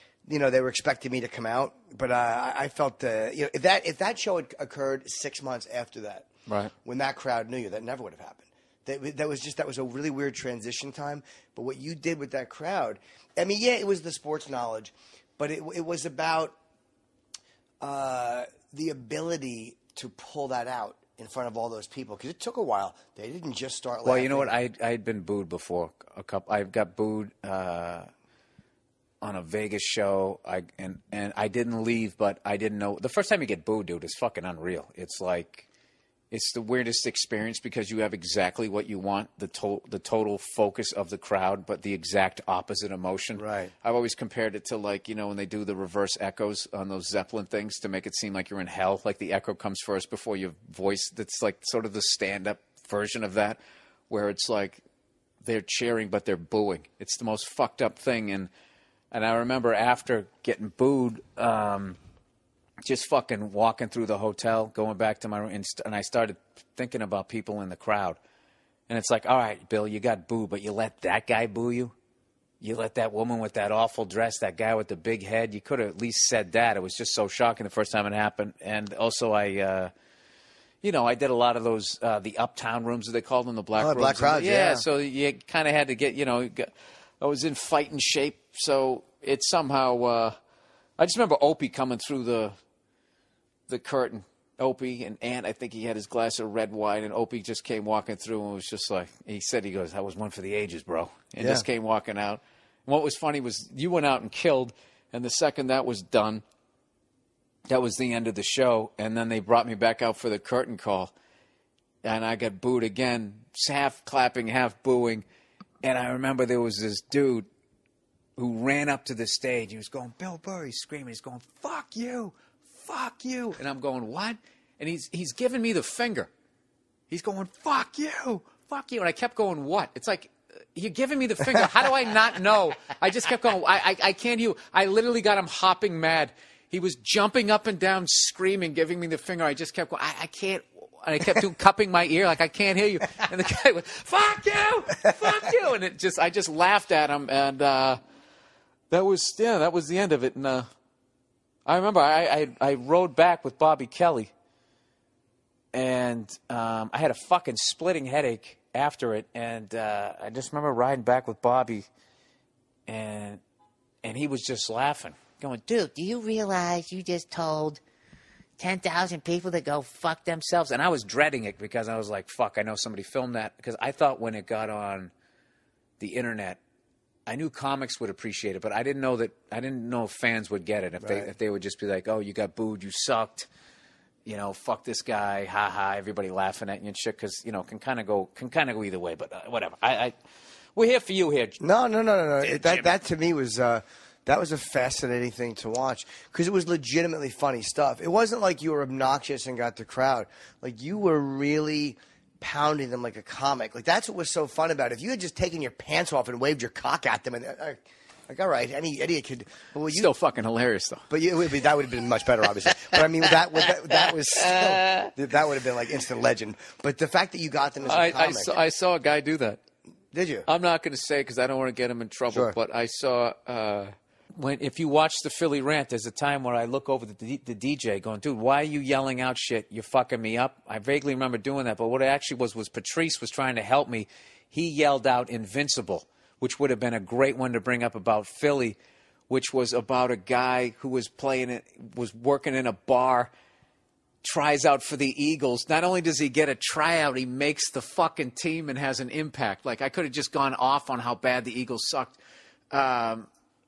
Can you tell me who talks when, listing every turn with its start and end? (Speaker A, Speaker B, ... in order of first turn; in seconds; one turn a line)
Speaker A: 0.3-6.3
Speaker A: 6.8-16.5
Speaker A: 17.8-24.6
Speaker B: 24.0-28.1
Speaker B: 29.2-35.6
Speaker B: 36.3-54.8
Speaker A: 43.3-43.7
Speaker B: 55.4-58.5
Speaker B: 59.1-62.0
Speaker B: 62.8-68.2
Speaker B: 68.9-71.9
Speaker B: 72.6-79.9
Speaker B: 80.8-86.7
Speaker A: 83.7-84.8
Speaker B: 87.2-90.3
Speaker B: 91.0-92.5
Speaker B: 93.7-106.4
Speaker A: 101.4-101.6
Speaker B: 107.7-111.1
Speaker B: 112.0-115.2
Speaker B: 115.8-117.5
Speaker B: 118.4-126.3
Speaker B: 127.1-148.0
Speaker B: 148.9-150.7
Speaker B: 151.7-154.3
Speaker B: 155.7-161.9
Speaker B: 162.9-163.4
Speaker B: 164.0-167.8
Speaker B: 168.6-175.1
Speaker B: 176.0-176.6
Speaker B: 177.3-183.5
Speaker A: 181.0-181.3
Speaker B: 184.2-190.1
Speaker B: 190.8-191.6
Speaker A: 191.6-210.1
Speaker B: 192.4-193.0
Speaker B: 209.9-211.0
Speaker A: 211.1-218.6
Speaker B: 214.3-215.0
Speaker B: 217.8-219.6
Speaker A: 220.1-220.5
Speaker B: 220.4-238.8
Speaker A: 222.3-222.6
Speaker B: 239.3-243.3
Speaker B: 244.2-252.2
Speaker B: 252.7-253.3